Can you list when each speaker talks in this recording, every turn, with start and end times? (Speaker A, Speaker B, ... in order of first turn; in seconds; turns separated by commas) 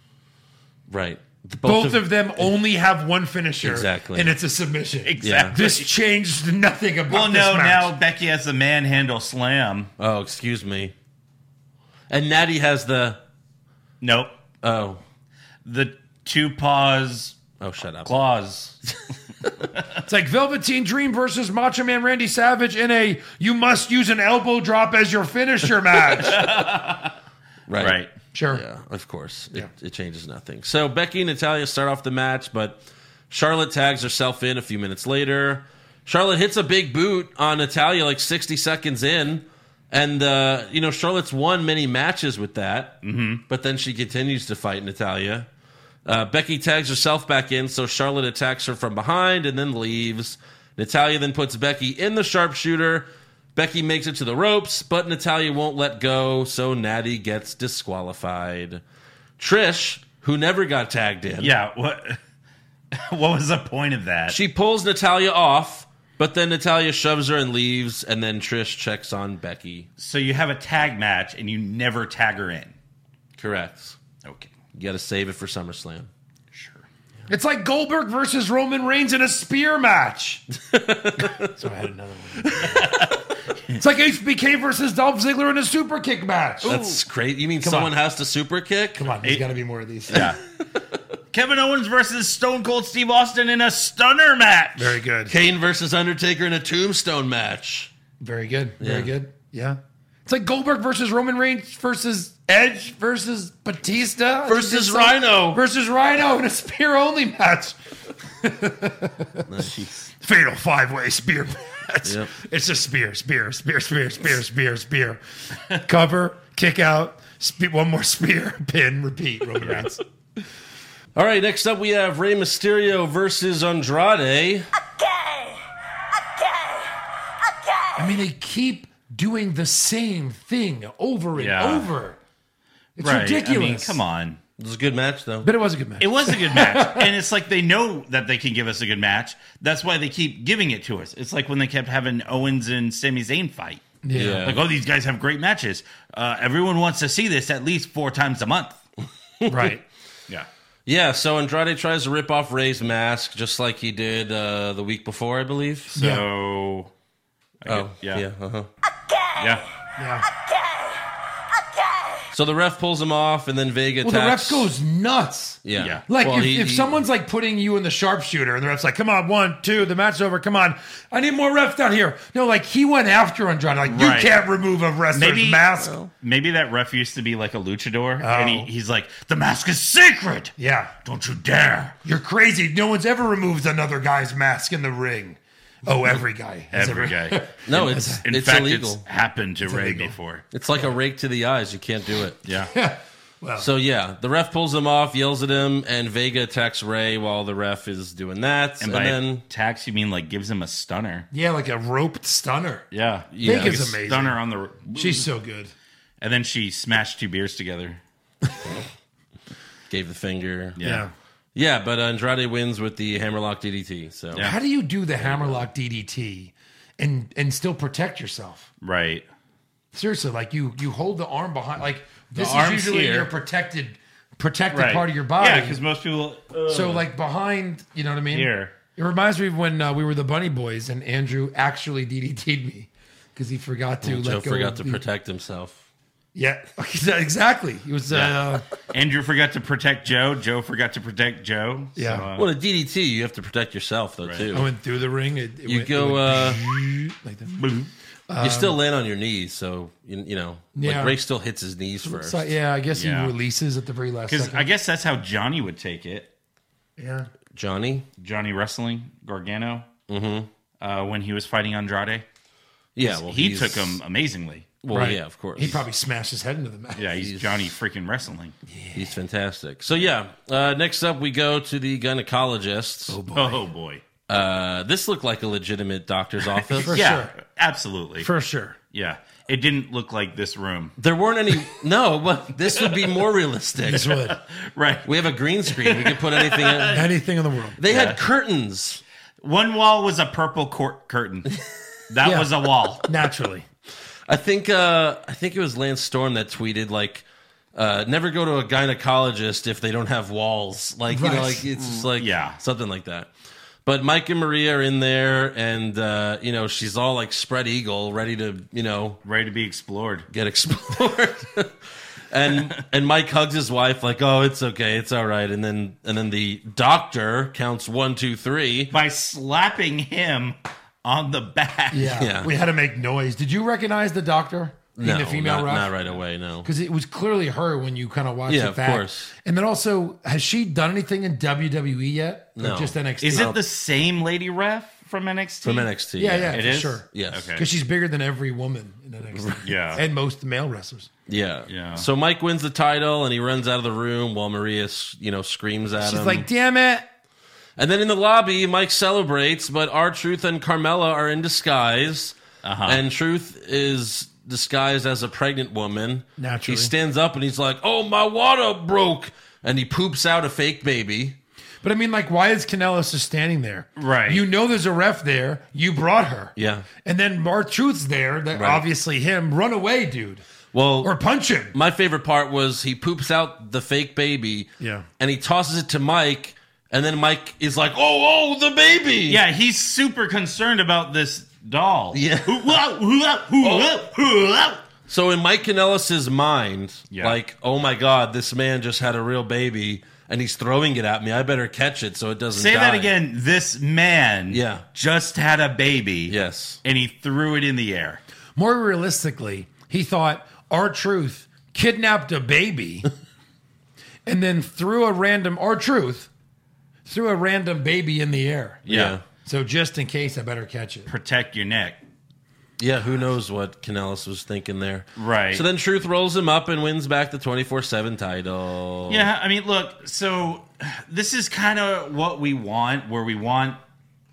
Speaker A: 0.9-2.5, Speaker B: 1.6-7.9, Speaker A: 3.6-4.3, Speaker C: 5.1-5.9, Speaker A: 5.2-5.6, Speaker C: 7.1-9.9, Speaker A: 10.0-10.9, Speaker A: 12.1-13.2, Speaker C: 14.0-14.3, Speaker A: 14.6-15.0, Speaker C: 15.6-17.4, Speaker A: 17.6-18.1, Speaker C: 18.1-18.8, Speaker B: 20.1-26.4, Speaker C: 26.2-27.2, Speaker A: 27.7-43.0, Speaker C: 27.8-28.1, Speaker B: 28.3-28.6, Speaker C: 43.0-43.4, Speaker A: 43.5-45.5, Speaker A: 46.0-58.8, Speaker A: 59.4-61.5, Speaker C: 61.4-62.2, Speaker C: 62.9-64.4, Speaker A: 64.3-69.9, Speaker C: 70.0-72.8, Speaker A: 73.4-74.0, Speaker C: 74.2-74.5, Speaker A: 74.7-76.1, Speaker C: 76.5-76.8, Speaker B: 77.3-80.4, Speaker A: 80.6-81.5, Speaker B: 81.5-82.9, Speaker C: 82.8-83.1, Speaker B: 83.8-86.9, Speaker A: 86.6-89.2, Speaker C: 86.7-86.9, Speaker B: 87.6-87.9, Speaker B: 89.0-90.3, Speaker C: 90.1-90.4, Speaker C: 91.3-95.0, Speaker B: 94.8-95.3, Speaker A: 95.3-97.9, Speaker B: 98.2-107.8, Speaker A: 98.8-99.1, Speaker A: 104.5-105.6, Speaker B: 108.4-109.5, Speaker A: 109.5-109.9, Speaker B: 110.2-120.0, Speaker A: 112.0-112.3, Speaker A: 121.1-124.7, Speaker B: 128.0-132.2, Speaker C: 131.3-131.9, Speaker B: 133.0-134.0, Speaker C: 133.0-134.4, Speaker A: 134.6-135.5, Speaker B: 135.4-137.1, Speaker C: 136.0-143.9, Speaker B: 144.0-144.5, Speaker A: 144.1-144.6, Speaker C: 144.4-148.8, Speaker A: 149.4-149.7, Speaker B: 149.5-149.8, Speaker A: 150.9-155.9, Speaker C: 155.9-156.9, Speaker B: 156.0-156.2, Speaker C: 157.6-158.2, Speaker A: 157.7-158.7, Speaker C: 159.4-159.7, Speaker B: 160.0-160.3, Speaker A: 162.3-164.7, Speaker B: 164.0-175.9, Speaker A: 165.6-167.0, Speaker C: 165.8-166.0, Speaker C: 173.9-174.4, Speaker C: 175.1-182.0, Speaker A: 175.8-176.1, Speaker B: 178.2-178.7, Speaker B: 180.6-180.9, Speaker B: 182.1-188.2, Speaker C: 186.7-190.5, Speaker A: 187.7-189.0, Speaker B: 189.7-190.1, Speaker A: 190.5-192.4, Speaker C: 192.4-192.7, Speaker B: 192.7-193.7, Speaker A: 193.6-199.4, Speaker C: 198.8-201.3, Speaker B: 201.3-202.9, Speaker C: 202.9-205.3, Speaker A: 203.3-203.8, Speaker B: 203.4-204.4, Speaker B: 204.9-205.7, Speaker C: 206.2-208.0, Speaker A: 209.9-210.8, Speaker C: 210.8-211.1, Speaker B: 210.8-211.1, Speaker A: 211.6-214.5, Speaker B: 214.4-218.7, Speaker A: 215.2-215.7, Speaker C: 218.8-219.2, Speaker B: 219.9-225.8, Speaker A: 222.3-223.3, Speaker C: 224.7-227.0, Speaker B: 226.7-235.0, Speaker C: 228.3-228.8, Speaker A: 234.0-235.8, Speaker B: 236.3-238.6, Speaker C: 238.1-238.4, Speaker C: 238.9-242.5, Speaker B: 242.0-242.2, Speaker A: 242.3-244.7, Speaker C: 244.2-244.6, Speaker B: 244.5-247.5, Speaker A: 245.7-246.6, Speaker C: 247.5-247.9, Speaker B: 248.3-248.8, Speaker A: 248.4-252.5, Speaker B: 250.8-251.2, Speaker B: 252.0-254.7, Speaker C: 252.9-253.3, Speaker C: 254.3-256.3, Speaker B: 257.0-257.3, Speaker A: 257.5-258.1, Speaker C: 258.2-259.9, Speaker A: 260.1-260.5, Speaker C: 260.8-262.2, Speaker A: 263.0-264.0, Speaker C: 263.0-264.8, Speaker A: 264.8-265.8, Speaker B: 264.9-267.1, Speaker C: 267.0-268.5, Speaker A: 267.2-267.6, Speaker B: 268.7-269.1, Speaker A: 268.9-273.2, Speaker B: 273.1-273.6, Speaker C: 273.4-274.0, Speaker A: 274.3-277.0, Speaker B: 276.8-277.3, Speaker C: 276.9-278.3, Speaker B: 278.2-278.8, Speaker C: 278.9-280.9, Speaker A: 281.0-284.2, Speaker B: 283.9-284.4, Speaker C: 284.3-285.1, Speaker A: 285.1-287.1, Speaker C: 285.7-287.1, Speaker B: 286.9-287.8, Speaker A: 287.8-289.0, Speaker C: 287.9-288.2, Speaker C: 289.4-291.5, Speaker C: 292.1-293.0, Speaker B: 292.2-292.5, Speaker B: 293.0-293.7, Speaker A: 294.3-303.3, Speaker B: 301.1-301.7, Speaker C: 302.0-302.6, Speaker A: 303.9-309.2, Speaker C: 309.2-310.3, Speaker A: 310.3-318.9, Speaker C: 318.9-322.2, Speaker B: 321.9-325.9, Speaker A: 322.0-322.5, Speaker A: 325.0-326.7, Speaker B: 326.6-333.5, Speaker A: 328.5-329.3, Speaker A: 332.6-333.6, Speaker C: 333.2-335.9, Speaker A: 335.6-337.5, Speaker B: 336.2-341.1, Speaker C: 336.5-337.6, Speaker A: 339.4-339.7, Speaker C: 339.6-340.0, Speaker A: 341.3-346.5, Speaker C: 341.7-342.1, Speaker B: 346.0-347.0, Speaker A: 347.8-361.4, Speaker C: 352.6-353.0, Speaker B: 356.4-356.9, Speaker B: 361.8-370.4, Speaker C: 364.0-364.4, Speaker A: 366.6-366.9, Speaker A: 368.5-368.9, Speaker A: 370.7-371.1, Speaker B: 371.0-371.8, Speaker A: 371.7-379.4, Speaker B: 374.8-375.1, Speaker C: 379.3-384.8, Speaker A: 382.1-382.8, Speaker A: 383.6-383.9, Speaker A: 385.1-393.1, Speaker C: 387.1-387.4, Speaker C: 392.5-398.2, Speaker A: 394.5-394.8, Speaker A: 396.3-396.8, Speaker B: 398.6-403.1, Speaker B: 404.2-406.3, Speaker B: 407.1-408.8, Speaker C: 408.9-409.2, Speaker A: 408.9-409.2, Speaker B: 409.4-411.1, Speaker C: 411.1-412.0, Speaker A: 412.8-419.3, Speaker C: 415.2-415.6, Speaker C: 419.1-423.8